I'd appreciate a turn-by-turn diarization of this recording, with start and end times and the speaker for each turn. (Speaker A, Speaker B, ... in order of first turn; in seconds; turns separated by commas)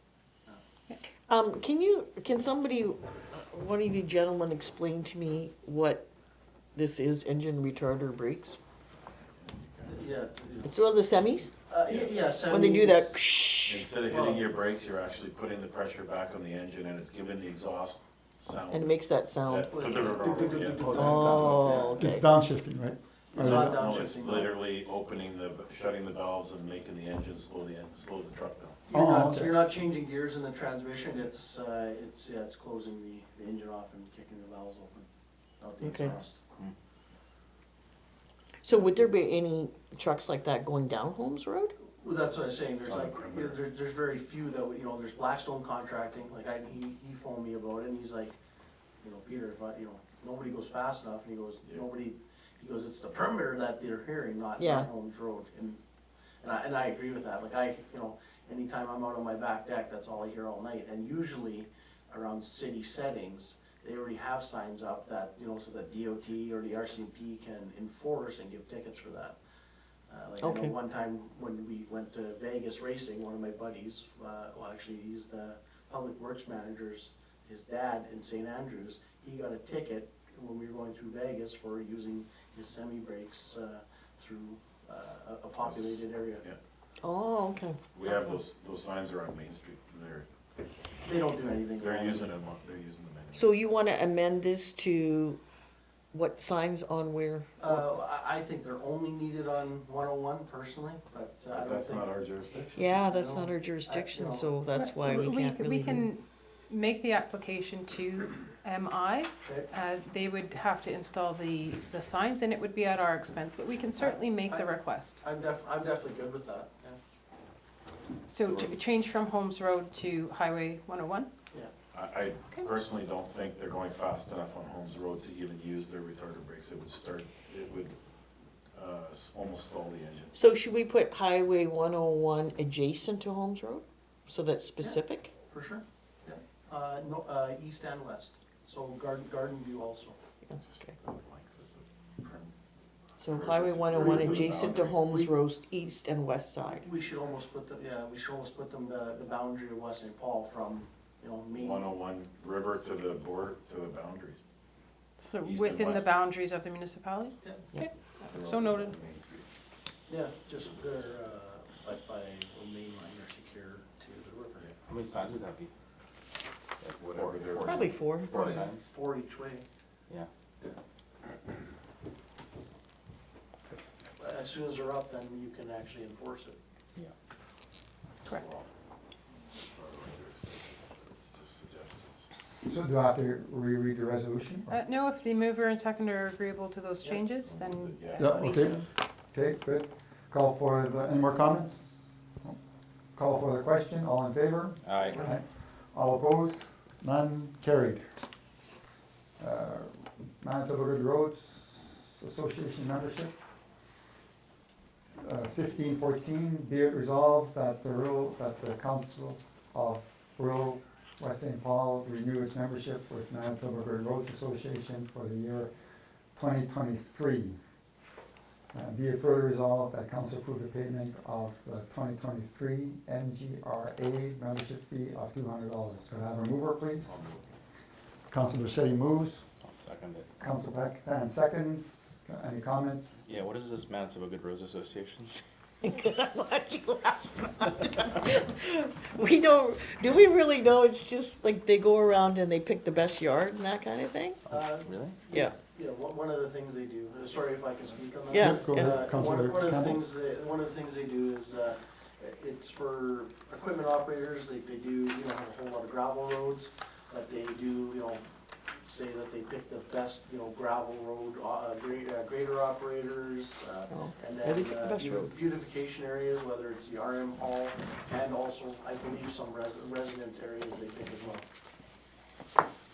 Speaker A: 1.2-6.1, Speaker A: 6.7-8.6, Speaker B: 9.3-10.0, Speaker C: 9.8-10.7, Speaker A: 10.6-11.5, Speaker C: 11.7-13.2, Speaker B: 11.8-12.4, Speaker A: 12.5-13.9, Speaker B: 13.6-21.8, Speaker C: 14.1-14.4, Speaker A: 18.7-19.8, Speaker C: 19.7-22.0, Speaker D: 20.8-21.8, Speaker A: 20.8-22.3, Speaker E: 22.0-23.8, Speaker C: 23.3-24.5, Speaker B: 23.4-28.8, Speaker C: 28.9-35.0, Speaker E: 28.9-29.6, Speaker C: 35.6-36.4, Speaker A: 35.8-36.2, Speaker A: 38.6-41.7, Speaker C: 41.9-48.4, Speaker B: 42.8-43.6, Speaker C: 49.0-55.8, Speaker A: 54.6-54.9, Speaker C: 56.4-69.3, Speaker C: 70.1-86.4, Speaker A: 70.4-70.7, Speaker B: 85.6-86.6, Speaker A: 87.0-87.8, Speaker B: 87.9-90.3, Speaker C: 91.0-92.3, Speaker B: 91.8-93.6, Speaker A: 93.3-95.4, Speaker A: 96.1-98.0, Speaker C: 97.6-102.1, Speaker B: 101.5-102.9, Speaker A: 102.7-106.1, Speaker C: 102.9-104.5, Speaker F: 104.7-115.2, Speaker C: 114.0-117.0, Speaker F: 118.3-121.3, Speaker B: 118.4-118.8, Speaker B: 121.9-127.9, Speaker B: 128.7-130.3, Speaker A: 130.3-135.3, Speaker C: 134.8-140.2, Speaker B: 140.6-142.5, Speaker A: 143.2-146.8, Speaker B: 143.2-145.0, Speaker C: 144.0-145.3, Speaker C: 146.7-151.9, Speaker B: 151.5-154.4, Speaker F: 155.2-159.0, Speaker B: 155.4-156.1, Speaker B: 158.3-159.4, Speaker C: 160.1-164.7, Speaker B: 164.6-164.8, Speaker D: 164.9-165.7, Speaker D: 166.8-167.7, Speaker B: 167.0-168.6, Speaker A: 167.6-168.3, Speaker C: 168.3-169.6, Speaker D: 168.3-168.8, Speaker C: 174.2-176.6, Speaker B: 178.3-178.7, Speaker B: 179.6-182.3, Speaker E: 182.7-184.8, Speaker F: 184.7-188.8, Speaker B: 187.4-188.8, Speaker E: 188.2-192.6, Speaker E: 193.1-198.0, Speaker D: 194.8-195.2, Speaker E: 199.4-203.4, Speaker E: 205.2-215.7, Speaker E: 216.3-217.6, Speaker E: 218.7-227.1, Speaker B: 227.1-227.6, Speaker E: 228.3-229.5, Speaker D: 229.6-230.2, Speaker E: 230.4-233.2, Speaker D: 233.2-235.3, Speaker A: 235.8-244.4, Speaker C: 244.5-271.4, Speaker D: 244.5-245.1, Speaker A: 248.3-249.0, Speaker E: 248.4-250.0, Speaker A: 263.9-265.3